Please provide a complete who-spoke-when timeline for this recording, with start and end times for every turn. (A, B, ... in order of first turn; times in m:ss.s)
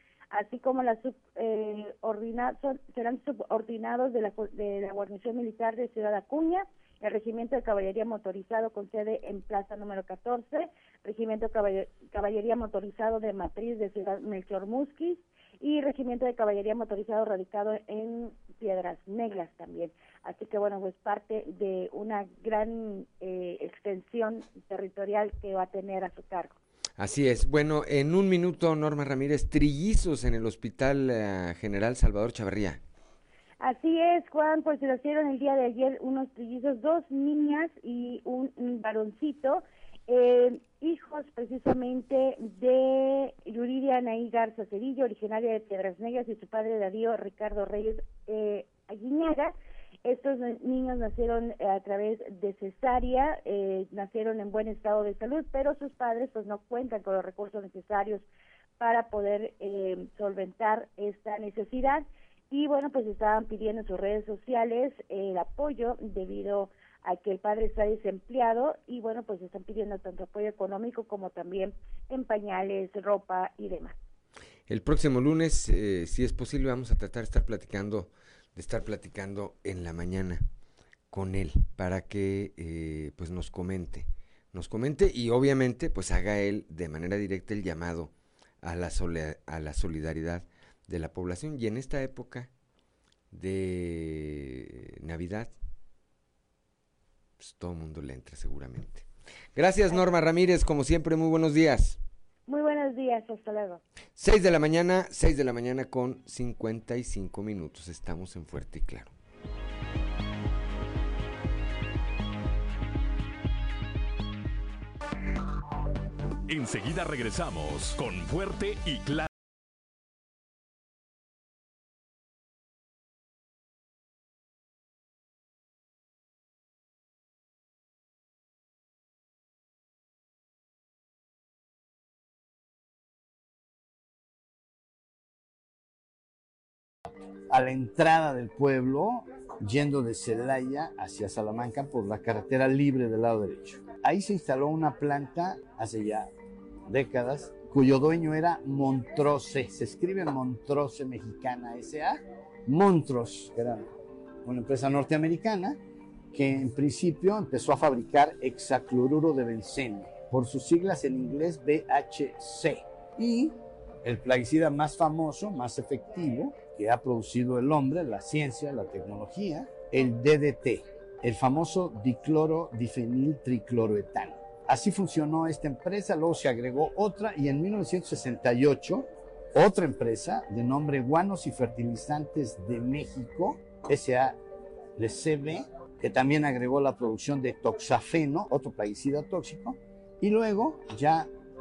0:00.3-0:26.5 A
0:27.0-0:32.8 B
0:33.6-0:49.5 A
0:50.0-0:58.2 A
0:58.8-1:13.9 A
1:14.7-1:20.4 B
1:21.1-1:32.5 B
1:33.3-1:35.5 B
1:37.4-1:42.0 B
1:42.5-1:43.8 A
1:44.2-1:49.1 B
1:56.5-1:59.3 C
2:17.5-2:26.3 D
2:26.9-2:33.9 D
2:34.4-2:35.8 D
2:36.3-3:04.4 D
3:05.0-3:11.3 D